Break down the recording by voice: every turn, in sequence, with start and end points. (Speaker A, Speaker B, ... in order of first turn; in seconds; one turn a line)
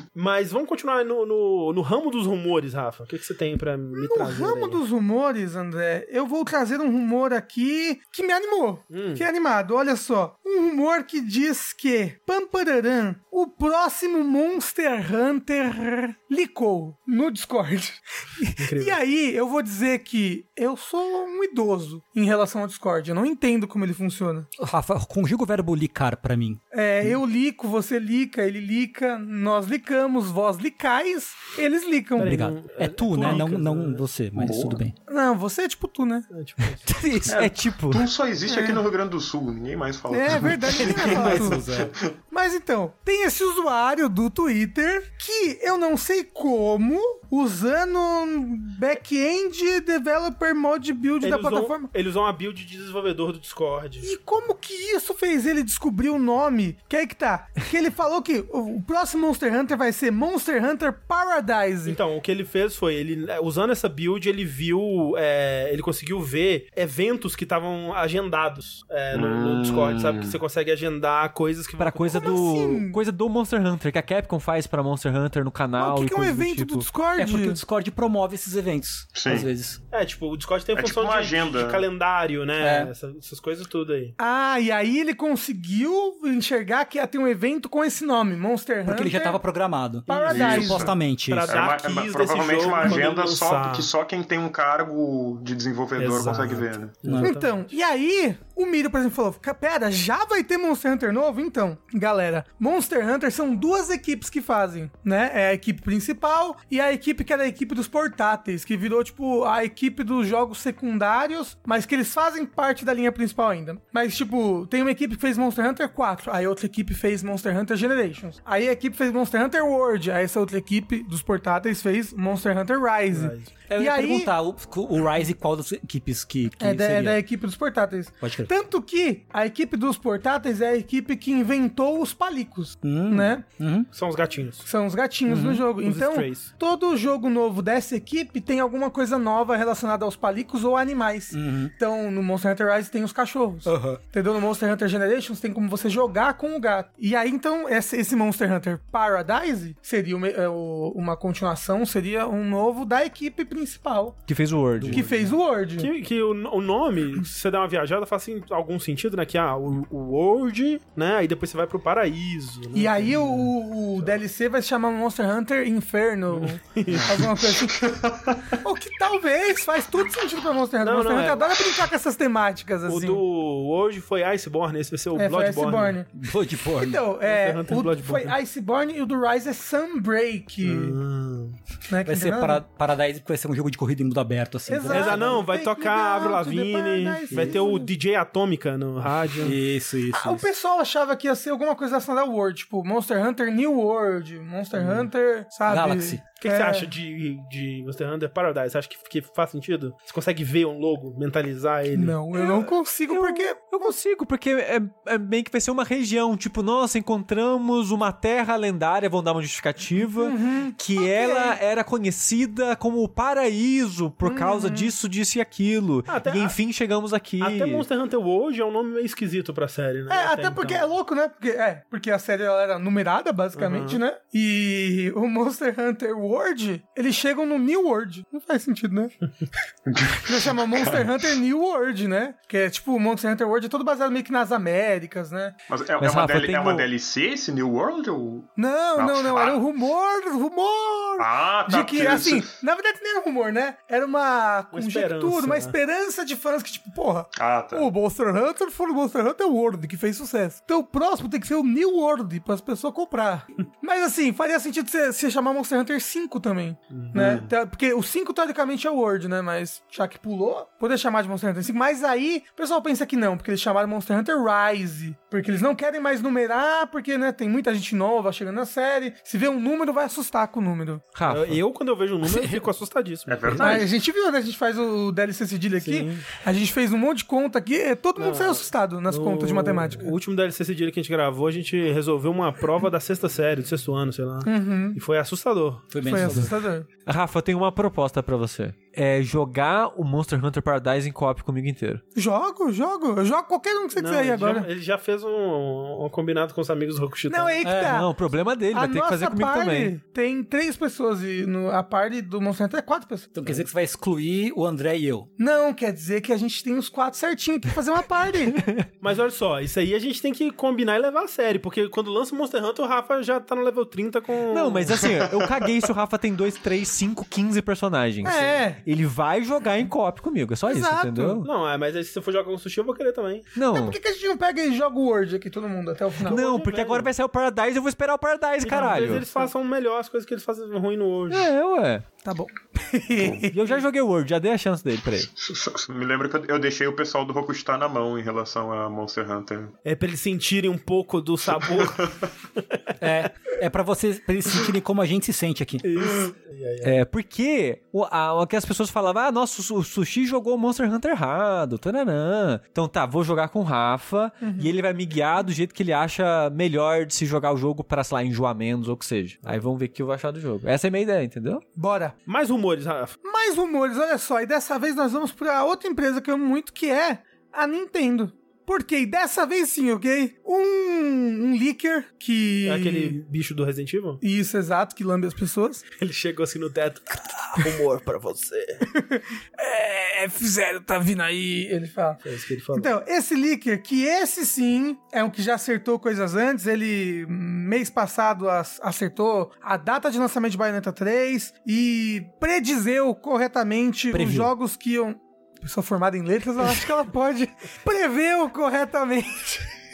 Speaker A: 0.1-4.8
Speaker B: 4.0-24.5
Speaker A: 8.9-9.3
Speaker A: 18.6-19.0
Speaker C: 24.6-27.1
Speaker B: 26.7-32.4
Speaker A: 32.2-34.0
Speaker C: 32.2-34.9
Speaker D: 34.4-34.8
Speaker B: 35.1-36.3
Speaker A: 36.3-36.9
Speaker C: 36.9-37.3
Speaker E: 37.0-38.1
Speaker D: 37.3-42.1
Speaker B: 38.5-38.8
Speaker B: 40.1-41.6
Speaker C: 40.7-41.9
Speaker B: 42.3-51.9
Speaker A: 51.2-54.1
Speaker B: 54.0-62.0
Speaker A: 61.9-72.3
Speaker D: 69.1-70.4
Speaker E: 71.8-76.9
Speaker B: 72.1-73.0
Speaker B: 75.8-77.6
Speaker C: 77.2-79.8
Speaker D: 79.1-79.5
Speaker A: 79.9-84.2
Speaker D: 80.7-81.8
Speaker C: 82.6-82.9
Speaker B: 84.2-89.4
Speaker C: 88.9-91.5
Speaker B: 90.1-90.9
Speaker A: 90.1-93.9
Speaker D: 90.3-90.9
Speaker D: 91.5-97.0
Speaker A: 96.0-97.6
Speaker C: 97.0-97.3
Speaker B: 97.2-124.3
Speaker A: 123.1-123.5
Speaker C: 123.7-127.2
Speaker B: 126.6-133.4
Speaker C: 128.2-128.5
Speaker C: 132.8-133.9
Speaker A: 133.9-134.7
Speaker B: 134.7-154.2
Speaker C: 135.3-135.6
Speaker A: 135.7-136.5
Speaker C: 141.3-141.7
Speaker C: 143.7-144.0
Speaker E: 154.3-155.1
Speaker C: 154.8-155.3
Speaker B: 154.9-155.9
Speaker A: 155.8-164.2
Speaker B: 162.7-167.9
Speaker A: 166.3-167.4
Speaker D: 167.5-168.6
Speaker B: 168.6-173.2
Speaker A: 170.8-171.6
Speaker A: 172.9-176.0
Speaker B: 175.2-176.1
Speaker C: 176.1-177.0
Speaker B: 176.7-181.0
Speaker A: 177.2-178.4
Speaker A: 180.6-181.6
Speaker B: 181.9-182.6
Speaker C: 182.1-185.4
Speaker B: 184.7-187.9
Speaker A: 184.9-189.6
Speaker C: 187.3-187.6
Speaker C: 189.4-190.4
Speaker B: 190.1-196.9
Speaker A: 194.7-195.1
Speaker C: 195.7-196.2
Speaker A: 196.4-202.6
Speaker B: 201.9-203.9
Speaker E: 202.5-217.8
Speaker B: 210.0-211.6
Speaker B: 214.2-214.9
Speaker A: 216.1-216.6
Speaker A: 217.4-220.8
Speaker B: 220.1-229.1
Speaker A: 223.6-224.0
Speaker D: 229.9-231.3
Speaker B: 230.2-235.6
Speaker D: 235.7-239.6
Speaker E: 236.0-236.9
Speaker B: 238.6-271.1
Speaker D: 241.2-242.6
Speaker A: 244.7-245.7
Speaker D: 247.4-247.9
Speaker D: 257.1-257.5
Speaker E: 271.1-271.6
Speaker A: 271.3-273.9
Speaker C: 272.3-272.6
Speaker D: 273.3-273.9
Speaker B: 273.6-280.1
Speaker A: 275.8-276.2
Speaker A: 278.2-286.5
Speaker B: 284.4-285.0
Speaker C: 285.9-286.5
Speaker B: 286.1-286.9
Speaker E: 287.1-292.0
Speaker B: 292.1-294.7
Speaker A: 293.9-297.6
Speaker B: 297.3-303.3
Speaker C: 297.6-298.0
Speaker E: 297.7-299.9
Speaker C: 303.3-305.3
Speaker B: 305.4-308.6
Speaker E: 308.5-308.9
Speaker A: 309.0-315.1
Speaker E: 314.5-321.5
Speaker D: 315.3-315.6
Speaker B: 318.2-318.8
Speaker B: 320.6-321.4
Speaker A: 321.4-323.5
Speaker E: 323.6-324.0
Speaker B: 323.7-326.4
Speaker A: 326.2-327.1
Speaker E: 326.2-329.3
Speaker A: 328.6-331.5
Speaker E: 331.3-332.1
Speaker B: 332.2-333.7
Speaker E: 333.5-335.3
Speaker D: 335.3-339.7
Speaker A: 339.9-342.8
Speaker D: 341.6-342.3
Speaker C: 343.0-345.9
Speaker A: 345.8-347.0
Speaker E: 346.8-361.6
Speaker B: 354.4-354.7
Speaker B: 361.8-362.1
Speaker A: 362.3-363.2
Speaker B: 363.2-373.2
Speaker A: 372.6-374.2
Speaker B: 374.2-375.8
Speaker A: 376.0-378.9
Speaker B: 378.9-382.2
Speaker A: 382.2-382.9
Speaker B: 382.7-399.7
Speaker C: 394.1-394.5